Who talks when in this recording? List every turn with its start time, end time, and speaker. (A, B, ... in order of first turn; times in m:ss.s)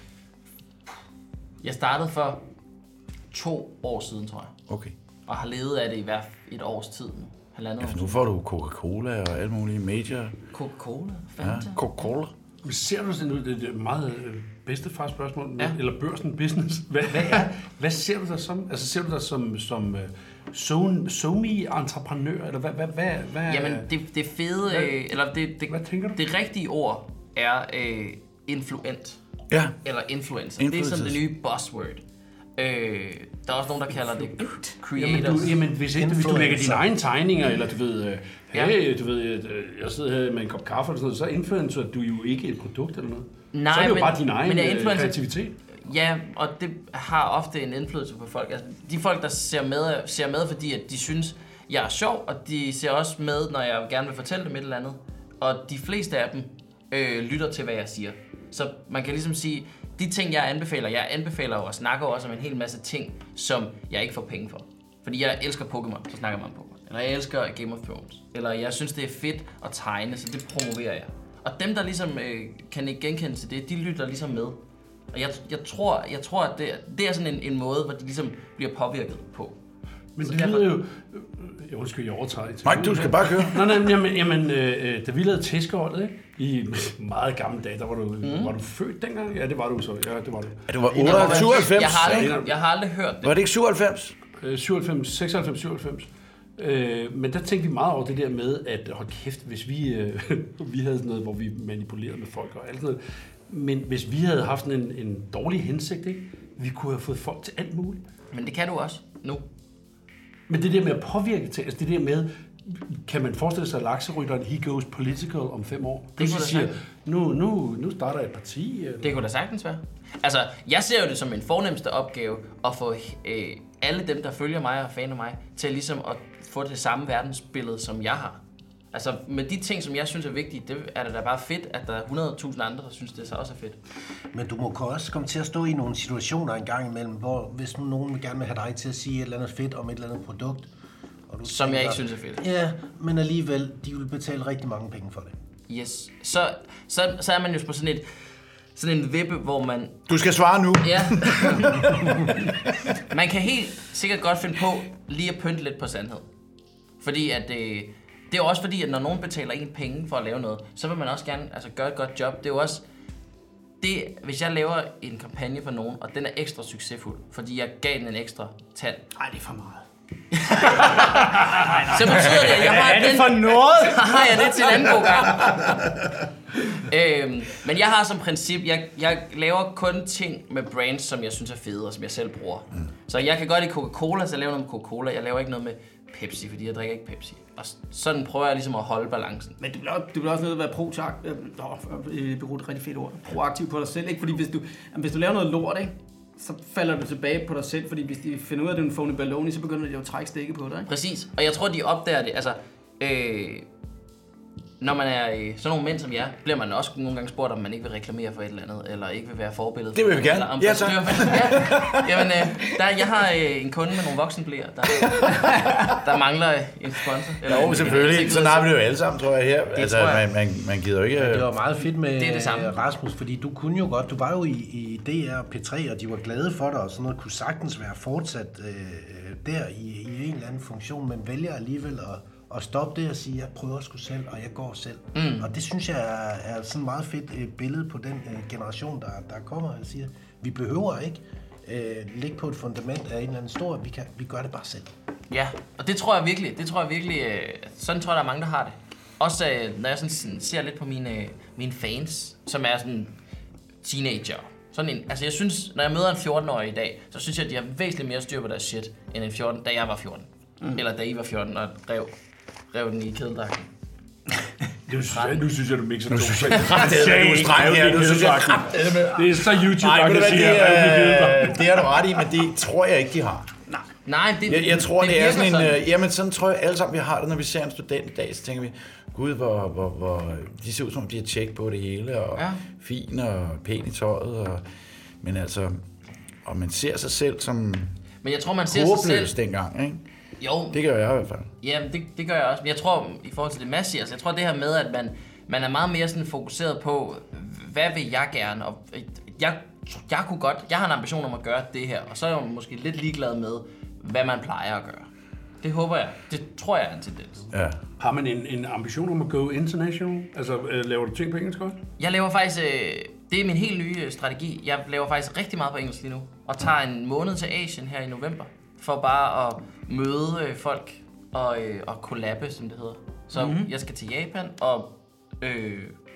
0:01.6-0:02.4 A
0:03.3-0:04.5 A
0:04.7-0:04.9 B
0:05.3-0:08.2 A
0:07.8-0:10.4 B
0:10.5-0:12.1 A
0:11.4-0:12.3 B
0:12.6-0:23.9 C
0:23.5-0:29.2 A
0:24.7-0:24.9 C
0:25.7-0:26.2 C
0:29.5-0:29.8 B
0:29.8-0:32.0 A
0:30.6-0:31.2 B
0:32.6-0:35.5 A
0:35.0-0:45.6 C
0:35.9-0:36.8 D
0:43.5-0:45.2 A
0:45.8-1:14.6 A
1:15.1-1:19.6 A
1:20.2-1:32.5 C
1:20.2-1:20.7 A
1:22.6-1:23.8 B
1:28.2-1:28.5 A
1:30.7-1:32.3 B
1:31.0-1:33.3 A
1:33.2-1:34.2 B
1:34.4-1:48.0 C
1:48.3-1:49.4 A
1:50.5-1:59.2 C
1:56.2-1:56.8 A
1:59.0-2:08.4 A
2:08.9-2:13.8 A
2:14.3-2:20.7 D
2:21.3-2:25.3 D
2:21.4-2:22.4 A
2:25.7-2:28.0 A
2:28.8-2:30.0 A
2:30.1-2:32.1 B
2:30.8-2:32.3 A
2:33.1-2:36.2 A
2:37.0-2:42.8 A
2:43.8-2:49.0 A
2:49.2-2:49.8 E
2:50.3-2:51.4 A
2:50.7-2:54.9 E
2:51.9-2:55.8 A
2:56.8-3:09.6 A
3:09.6-3:20.9 E
3:20.9-3:23.7 A
3:24.8-3:38.7 A
3:29.9-3:32.7 B
3:37.4-3:41.5 B
3:39.8-3:40.2 A
3:41.2-4:04.9 D
3:42.2-3:42.8 A
3:55.2-3:55.5 A
4:05.3-4:13.1 A
4:13.8-4:22.1 A
4:22.7-4:23.7 A
4:24.9-4:31.6 C
4:25.1-4:25.4 A
4:26.1-4:33.5 B
4:34.1-4:35.8 A
4:34.5-4:44.6 B
4:42.4-4:42.6 A
4:45.2-4:45.8 B
4:46.4-4:47.9 B
4:48.2-4:49.3 A
4:48.7-4:50.0 B
4:50.4-4:50.8 A
4:50.7-4:51.5 B
4:51.6-5:05.1 A
5:05.6-5:07.5 A
5:07.5-5:07.8 B
5:08.0-5:11.8 C
5:12.0-5:26.0 A
5:23.3-5:23.7 E